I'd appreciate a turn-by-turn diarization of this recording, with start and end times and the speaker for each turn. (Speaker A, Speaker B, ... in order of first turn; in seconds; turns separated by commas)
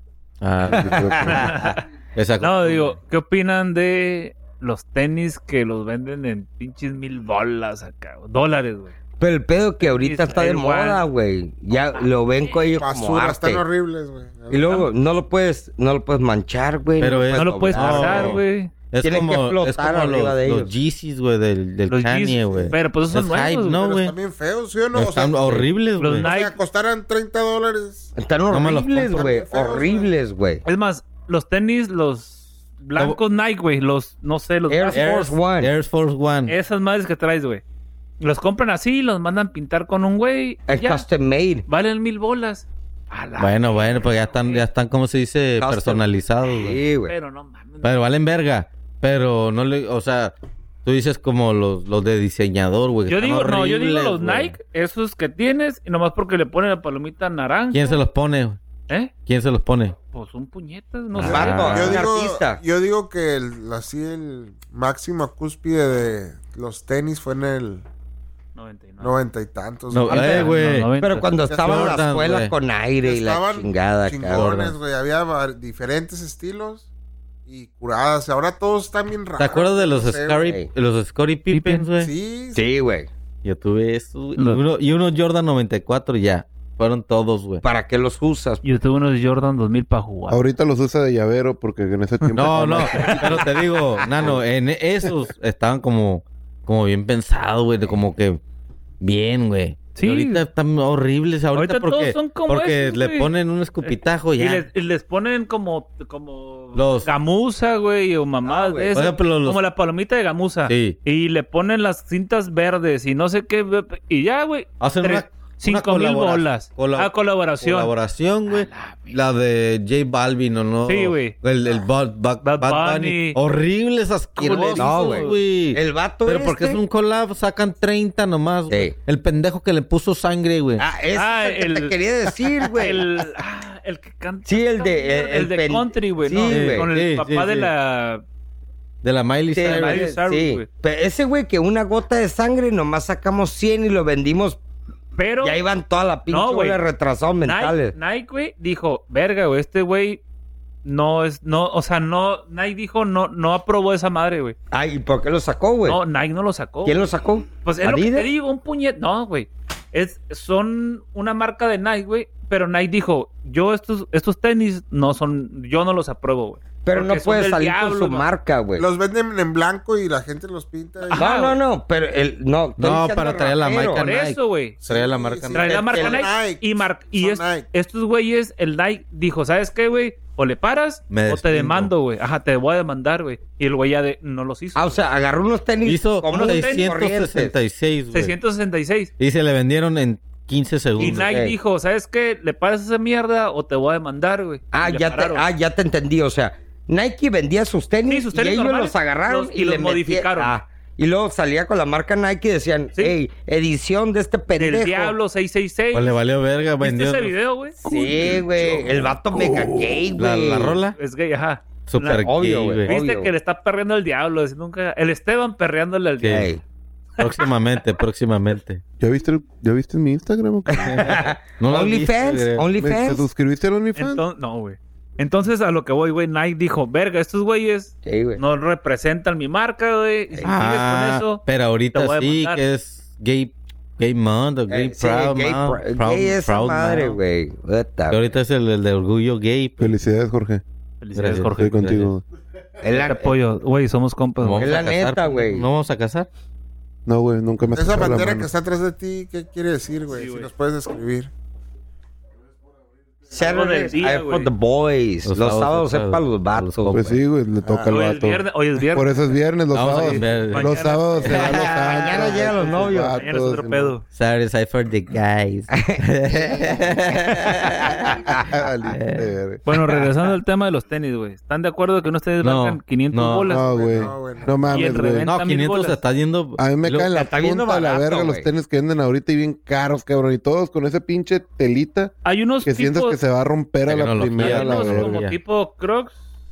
Speaker A: 0.4-3.0, Speaker B: 0.7-1.7, Speaker C: 1.3-1.8, Speaker C: 2.4-8.9, Speaker D: 9.2-13.6, Speaker C: 9.8-11.0, Speaker C: 11.9-12.7, Speaker E: 12.8-14.8, Speaker D: 14.5-18.4, Speaker A: 17.0-24.1, Speaker C: 17.3-18.7, Speaker D: 19.0-20.7, Speaker C: 21.9-23.9, Speaker E: 23.9-25.6, Speaker A: 24.9-26.3, Speaker C: 26.0-26.6, Speaker E: 26.2-28.1, Speaker D: 28.1-30.6, Speaker A: 28.5-29.4, Speaker E: 29.0-30.1, Speaker C: 30.6-35.2, Speaker D: 34.7-35.7, Speaker A: 34.9-36.5, Speaker C: 36.5-37.6, Speaker C: 38.2-41.0, Speaker D: 40.7-41.6, Speaker C: 41.7-44.6, Speaker A: 43.4-46.8, Speaker D: 45.6-47.1, Speaker C: 47.0-47.9, Speaker A: 47.8-54.6, Speaker C: 53.1-58.0, Speaker A: 57.7-58.6, Speaker A: 59.2-60.0, Speaker C: 60.1-62.0, Speaker A: 61.1-62.0, Speaker D: 61.2-62.6, Speaker E: 61.7-67.8, Speaker C: 68.5-69.2, Speaker E: 69.0-70.5, Speaker A: 69.9-70.9, Speaker C: 70.1-71.3, Speaker D: 71.0-74.5, Speaker E: 71.4-72.0, Speaker A: 71.6-72.5, Speaker E: 73.0-76.9, Speaker A: 74.3-74.8, Speaker E: 77.5-80.5, Speaker A: 79.4-82.1, Speaker C: 81.5-81.9, Speaker E: 82.0-82.7, Speaker D: 82.5-83.1, Speaker A: 83.4-87.6, Speaker C: 84.4-84.6, Speaker D: 87.6-88.6, Speaker C: 88.6-90.4, Speaker B: 90.3-93.6, Speaker A: 92.3-98.4, Speaker A: 99.0-104.7, Speaker C: 99.9-100.4, Speaker C: 101.5-103.3, Speaker C: 103.8-117.9, Speaker A: 106.7-107.1, Speaker D: 108.4-109.0, Speaker A: 108.9-109.6, Speaker A: 110.7-111.0, Speaker A: 114.8-130.8, Speaker C: 118.5-119.2, Speaker C: 120.9-121.4, Speaker C: 122.4-123.4, Speaker C: 124.4-125.3, Speaker D: 124.8-126.8, Speaker D: 130.8-133.3, Speaker C: 131.1-132.0, Speaker C: 132.7-138.2, Speaker D: 134.4-136.9, Speaker A: 136.4-137.7, Speaker A: 139.0-140.1, Speaker D: 139.5-144.6, Speaker C: 139.6-140.7, Speaker C: 145.2-145.6, Speaker D: 145.4-147.9, Speaker C: 146.3-146.8, Speaker C: 147.4-150.2, Speaker C: 150.8-154.5, Speaker D: 154.7-156.0, Speaker C: 155.8-168.3, Speaker D: 156.8-158.3, Speaker D: 166.8-168.8, Speaker E: 168.8-171.3, Speaker C: 171.1-171.6, Speaker D: 171.1-174.1, Speaker A: 172.8-176.2, Speaker C: 173.9-174.8, Speaker E: 174.8-177.7, Speaker C: 175.5-185.0, Speaker D: 175.6-176.2, Speaker A: 181.1-181.9, Speaker D: 184.7-187.5, Speaker A: 185.8-188.4, Speaker C: 186.3-186.8, Speaker C: 188.1-189.1, Speaker A: 189.2-191.3, Speaker D: 191.0-191.6, Speaker C: 191.0-195.4, Speaker D: 194.7-205.1, Speaker C: 198.1-200.6, Speaker C: 204.6-206.2, Speaker A: 205.9-207.3, Speaker C: 206.8-207.8, Speaker D: 207.8-210.8, Speaker B: 207.8-210.1, Speaker A: 210.2-210.9, Speaker C: 210.9-212.3, Speaker A: 211.9-212.9, Speaker D: 212.2-213.3, Speaker C: 212.8-216.4, Speaker A: 216.2-216.5, Speaker D: 216.3-216.6, Speaker A: 217.2-218.8, Speaker C: 217.2-217.4, Speaker B: 219.0-221.3, Speaker D: 220.7-223.2, Speaker A: 220.8-222.7, Speaker B: 222.7-224.2, Speaker C: 223.9-231.4, Speaker D: 228.0-228.4, Speaker A: 230.4-237.2, Speaker C: 231.9-232.6, Speaker D: 234.7-238.2, Speaker A: 238.1-239.9, Speaker B: 239.8-240.6, Speaker C: 241.0-241.8, Speaker A: 241.1-242.1, Speaker B: 241.4-242.2, Speaker D: 242.8-243.3, Speaker C: 242.9-244.8, Speaker A: 244.4-246.3, Speaker D: 244.6-245.6, Speaker B: 247.1-248.5, Speaker E: 247.7-251.3, Speaker C: 250.1-250.5, Speaker D: 253.3-257.2, Speaker C: 253.3-254.5, Speaker A: 255.2-257.0, Speaker B: 256.9-263.9, Speaker E: 257.6-257.9, Speaker C: 257.9-259.3, Speaker A: 259.7-262.0, Speaker C: 259.8-264.0, Speaker D: 261.3-263.2, Speaker A: 264.1-268.2, Speaker D: 265.8-268.5, Speaker B: 268.2-269.6, Speaker A: 268.9-269.3, Speaker C: 269.7-273.7, Speaker D: 269.7-270.3, Speaker A: 272.4-273.6, Speaker B: 273.5-275.3, Speaker E: 273.5-274.9, Speaker C: 274.7-276.0, Speaker A: 275.2-277.1, Speaker B: 276.6-285.2, Speaker D: 277.1-278.4, Speaker C: 282.2-283.2, Speaker A: 283.9-285.4, Speaker C: 284.4-286.1